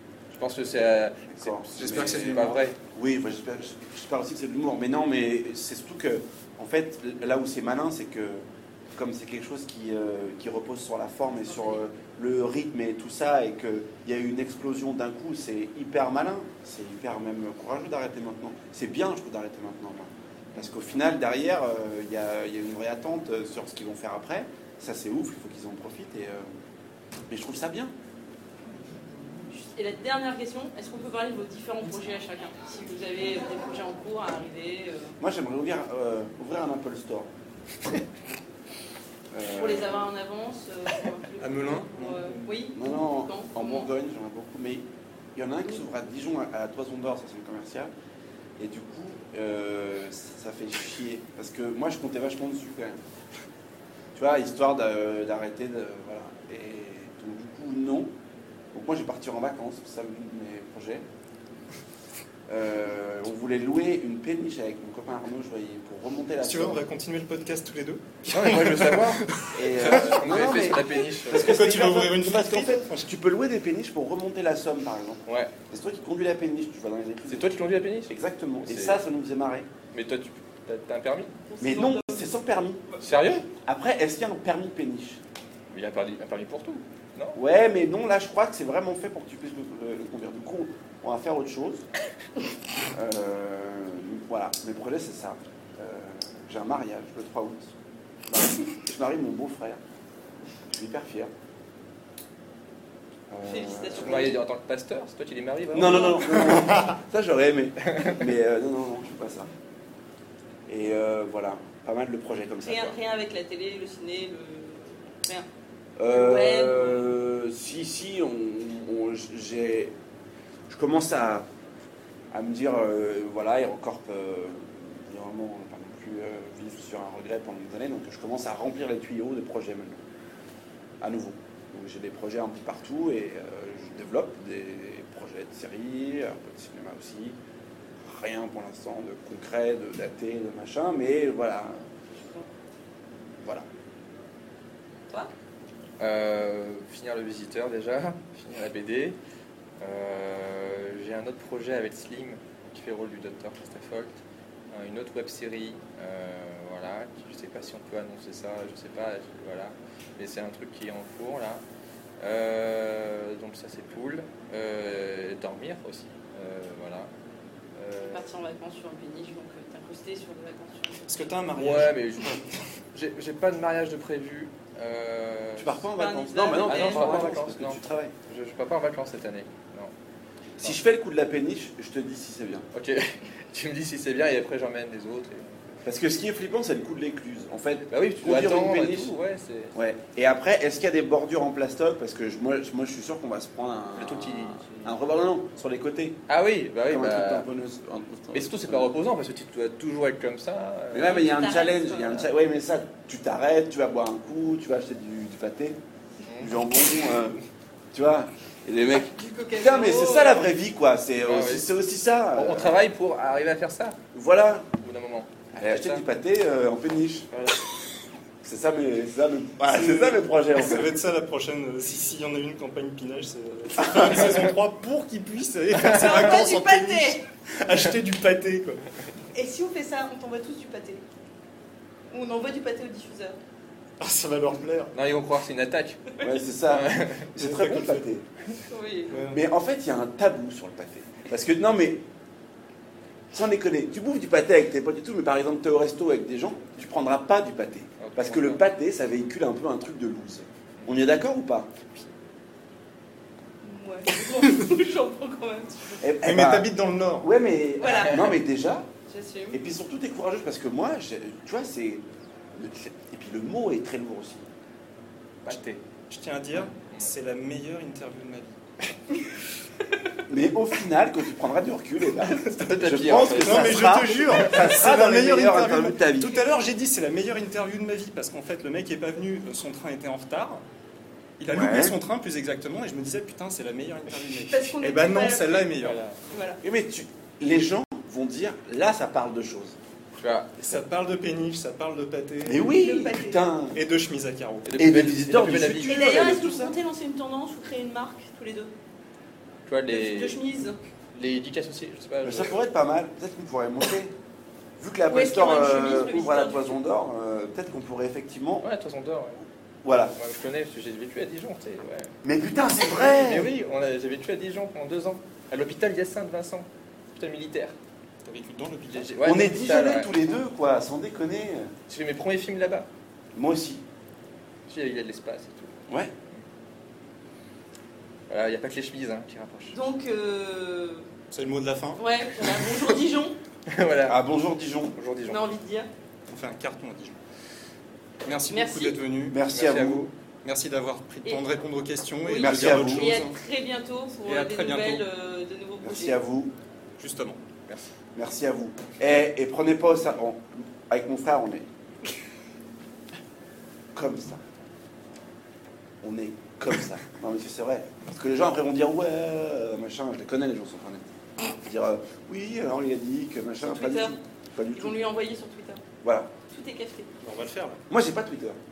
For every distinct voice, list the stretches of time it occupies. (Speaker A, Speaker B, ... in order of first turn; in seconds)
Speaker A: 0.3-2.8, 68.3-71.6, 75.3-75.5, 77.3-79.0, 79.9-81.3, 83.0-83.5, 85.7-87.4, 104.0-106.5, 146.0-149.2, 149.8-154.2, 154.7-161.6, 162.2-167.1, 167.8-168.3, 171.6-172.4, 172.9-175.8, 176.6-179.9, 182.7-185.6, 187.9-189.8, 194.0-194.9, 196.3-197.5, 198.3-201.3, 206.3-206.5, 211.2-211.7, 212.3-214.0, 214.8-216.0, 217.3-217.6, 234.9-236.0, 236.7-237.3, 248.0-248.6, 265.4-265.8, 272.2-274.6, 285.8-286.2, 290.2-290.6, 294.6-296.4, 299.7-300.4, 301.1-302.6, 308.6-309.4, 310.1-312.1, 312.8-317.8, 318.9-320.2, 321.9-322.9, 324.7-325.8, 328.3-329.8, 333.7-334.2, 334.9-335.4, 339.5-340.1
Speaker B: 1.4-26.5, 27.3-27.9, 35.2-37.3, 39.3-40.1, 42.7-47.9, 48.6-53.0, 54.1-58.1, 58.7-61.0, 62.5-66.8, 69.5-79.7, 81.6-82.8, 83.5-85.2, 87.4-91.9, 92.9-97.7, 98.3-99.8, 100.7-101.3, 103.3-104.3, 105.7-109.5, 110.7-113.0, 116.0-119.9, 120.7-121.5, 122.3-130.0, 131.0-137.4, 138.0-141.8, 143.4-143.7, 175.6-178.1, 180.6-182.7, 185.8-189.1, 189.7-196.2, 196.9-198.9, 200.9-205.8, 206.4-207.4, 207.9-212.8, 214.1-214.7, 215.5-217.3, 218.4-220.9, 236.2-238.2, 239.3-242.0, 243.3-251.7, 256.0-258.9, 259.5-262.0, 262.6-264.5, 270.3-276.4, 281.5-282.0, 286.6-289.8, 292.5-293.8, 294.8-296.8, 302.2-304.1, 304.8-308.7, 309.8-310.1, 312.2-313.5, 319.2-321.7, 323.4-323.8, 334.1-335.0, 339.3-340.1, 342.3-343.2, 345.8-346.5, 348.1-351.7, 353.9-354.4, 356.0-365.0, 366.0-366.3, 367.9-368.6
Speaker C: 1.8-2.6, 41.4-42.5, 66.4-70.6, 71.3-73.1, 171.1-172.5, 219.7-228.8, 234.0-234.9, 237.4-238.0, 239.1-239.4, 256.2-257.3, 266.1-268.6, 273.3-280.6, 281.4-286.0, 290.6-292.7, 293.7-294.8, 318.2-319.2, 331.3-332.1, 336.3-337.2, 338.2-339.4, 340.4-343.4, 344.3-345.1, 347.0-347.4, 367.2-367.8
Speaker D: 29.5-35.1, 39.5-43.9, 81.5-82.3, 103.5-104.4, 105.8-106.9, 112.7-115.5, 116.1-117.1, 142.2-142.5, 168.1-171.4, 175.9-177.3, 201.1-202.3, 209.1-210.5, 225.8-227.2, 229.3-231.0, 232.1-233.4, 238.7-239.2, 253.6-256.0, 257.8-258.4, 259.1-259.6, 284.3-285.6, 286.3-286.6, 292.7-293.4, 295.9-298.7, 299.9-300.8, 305.1-306.8, 329.7-331.1, 332.0-333.4, 335.3-335.9, 338.5-339.0, 342.2-346.2, 363.7-364.2, 364.7-365.8, 366.5-367.1